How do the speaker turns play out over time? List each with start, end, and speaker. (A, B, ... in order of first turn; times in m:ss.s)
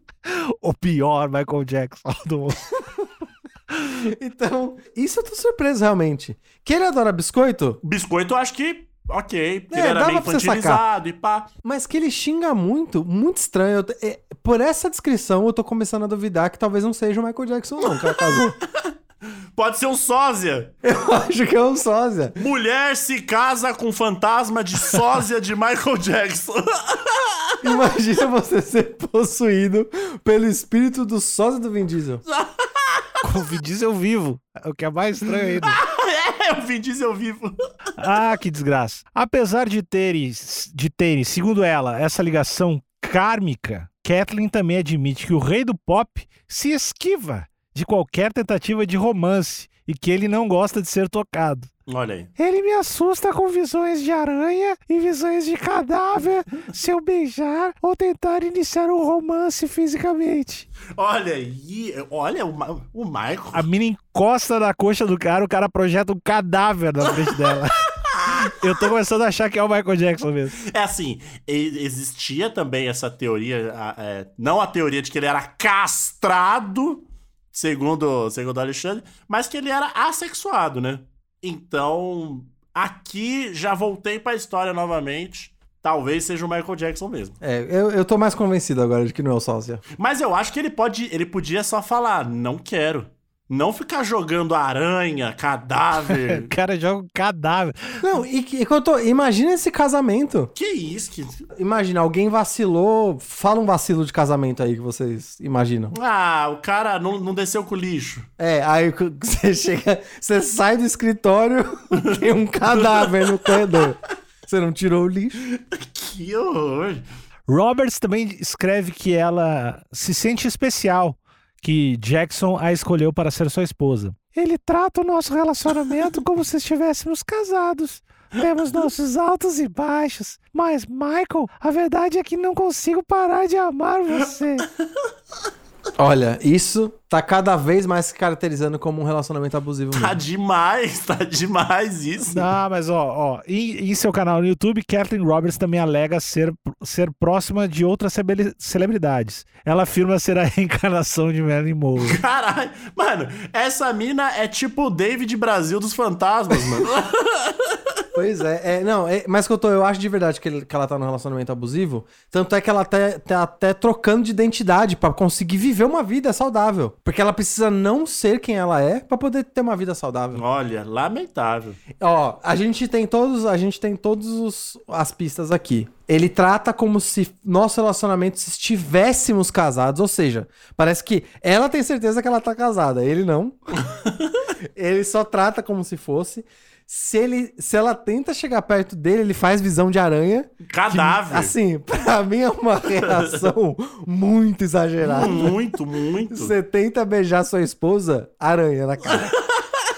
0:00.3-0:02.8 A
0:04.0-0:07.8 B
0:07.8-0:11.5 C
0:09.7-0:10.8 B
0:11.6-0:18.6 B
0:18.0-0:18.4 C
0:19.6-0:20.7 C
0:20.8-0:22.4 B
0:22.4-0:27.5 C
0:27.6-0:32.2 B
0:32.3-0:33.2 C
0:33.2-0:35.8 A
0:35.6-0:37.5 C
0:38.0-0:51.7 A
0:51.9-0:52.3 C
0:52.4-1:00.7 A
1:00.9-1:03.7 C
1:03.5-1:10.6 A
1:07.2-1:08.5 C
1:10.6-1:27.4 C
1:27.4-1:29.8 B
1:30.0-1:36.5 C
1:36.1-1:38.0 A
1:38.0-1:40.5 B
1:40.6-1:41.5 C
1:41.6-1:46.0 B
1:45.9-1:48.3 C
1:48.4-1:55.4 B
1:52.7-1:53.9 C
1:55.5-1:57.0 C
1:57.5-2:14.7 A
2:16.0-2:20.2 B
2:19.9-2:22.5 C
2:22.3-2:32.2 A
2:32.0-2:37.8 C
2:38.2-2:50.4 B
2:50.4-2:51.8 C
2:52.0-3:03.6 B
3:03.9-3:04.4 C
3:04.8-3:15.6 B
3:10.7-3:11.5 C
3:13.0-3:13.5 C
3:15.0-3:16.5 C
3:16.3-3:19.4 B